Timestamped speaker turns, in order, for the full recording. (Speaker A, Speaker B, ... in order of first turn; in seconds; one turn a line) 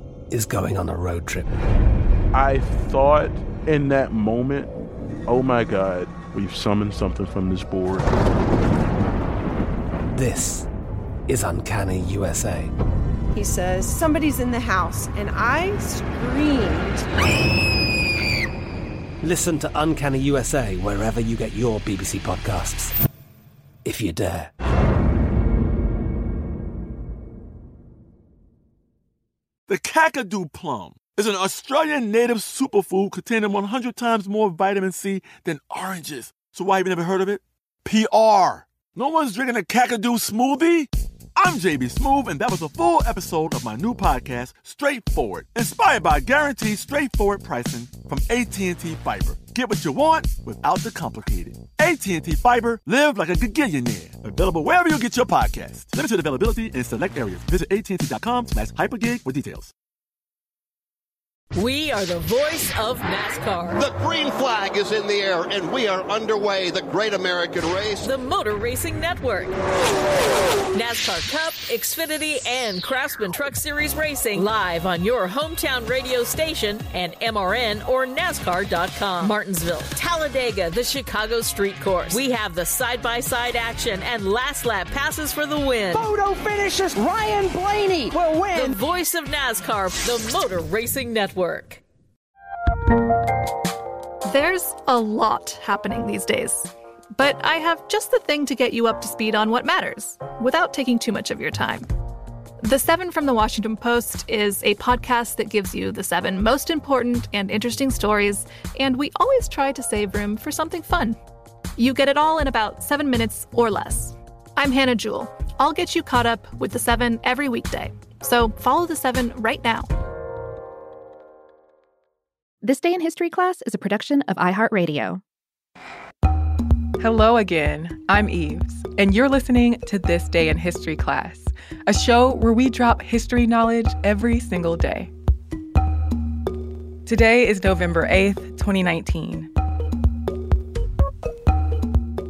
Speaker A: 0.3-1.5
Speaker B: 2.3-4.7
Speaker B: 5.3-8.1
Speaker A: 10.1-10.7
Speaker A: 11.3-12.7
Speaker C: 13.3-17.1
Speaker A: 19.2-22.9
Speaker A: 23.8-24.5
Speaker D: 29.7-59.7
Speaker E: 61.5-63.8
Speaker F: 63.8-68.1
Speaker E: 68.0-69.5
Speaker E: 70.7-86.0
Speaker G: 85.9-88.7
Speaker E: 88.5-91.8
Speaker H: 94.2-101.9
Speaker H: 102.6-111.2
Speaker H: 111.8-119.9
Speaker I: 122.6-125.2
Speaker J: 127.0-135.1
Speaker J: 137.1-139.5